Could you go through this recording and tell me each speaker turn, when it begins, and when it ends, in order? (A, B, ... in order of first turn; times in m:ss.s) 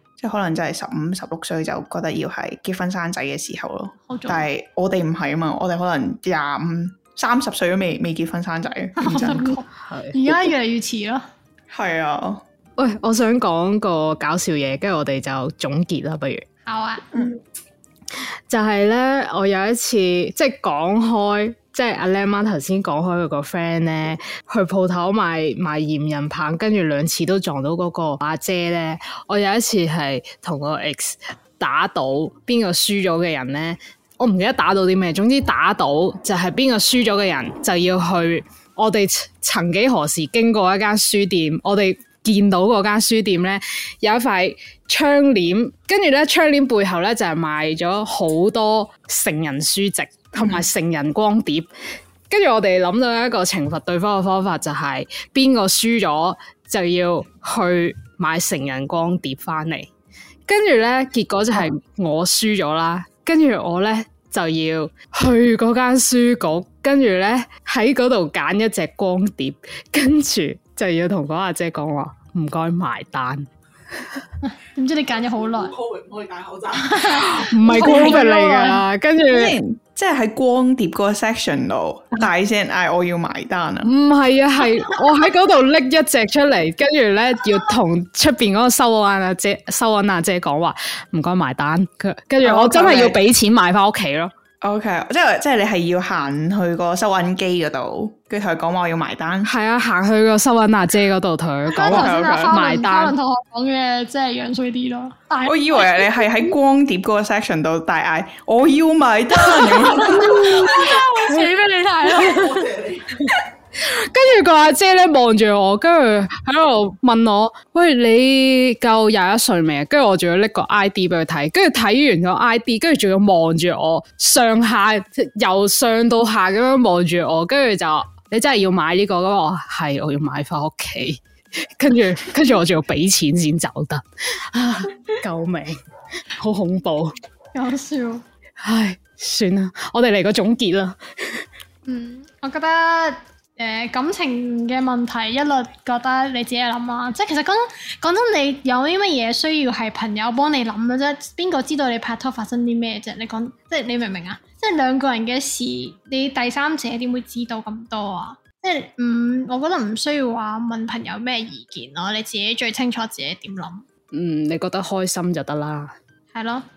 0:00.2-0:09.6 A
0:04.1-0:04.5 B
0:09.0-0:11.3 B
0:09.8-0:10.2 C
0:11.7-0:12.4 A
0:12.8-0:16.4 C
0:16.6-0:17.1 B
0:18.5-0:51.7 C
0:52.3-0:59.9 C
1:00.5-1:13.5 C
1:14.4-1:15.8 B
1:15.4-1:17.1 D
1:16.7-1:18.8 B
1:17.1-1:19.6 C
1:17.8-1:18.2 A
1:19.3-1:23.9 A
1:23.8-1:34.3 C
1:32.4-1:33.2 A
1:34.6-1:39.5 A
1:39.4-1:43.1 C
1:41.7-1:42.5 A
1:41.7-1:46.0 B
1:45.4-1:50.7 A
1:49.6-1:52.7 B
1:50.1-1:51.5 C
1:52.1-1:53.1 D
1:53.8-2:15.8 C
2:16.4-2:17.2 C
2:17.5-2:18.2 B
2:18.6-2:21.4 C
2:21.9-2:43.8 B
2:44.1-2:45.9 C
2:46.3-2:46.6 B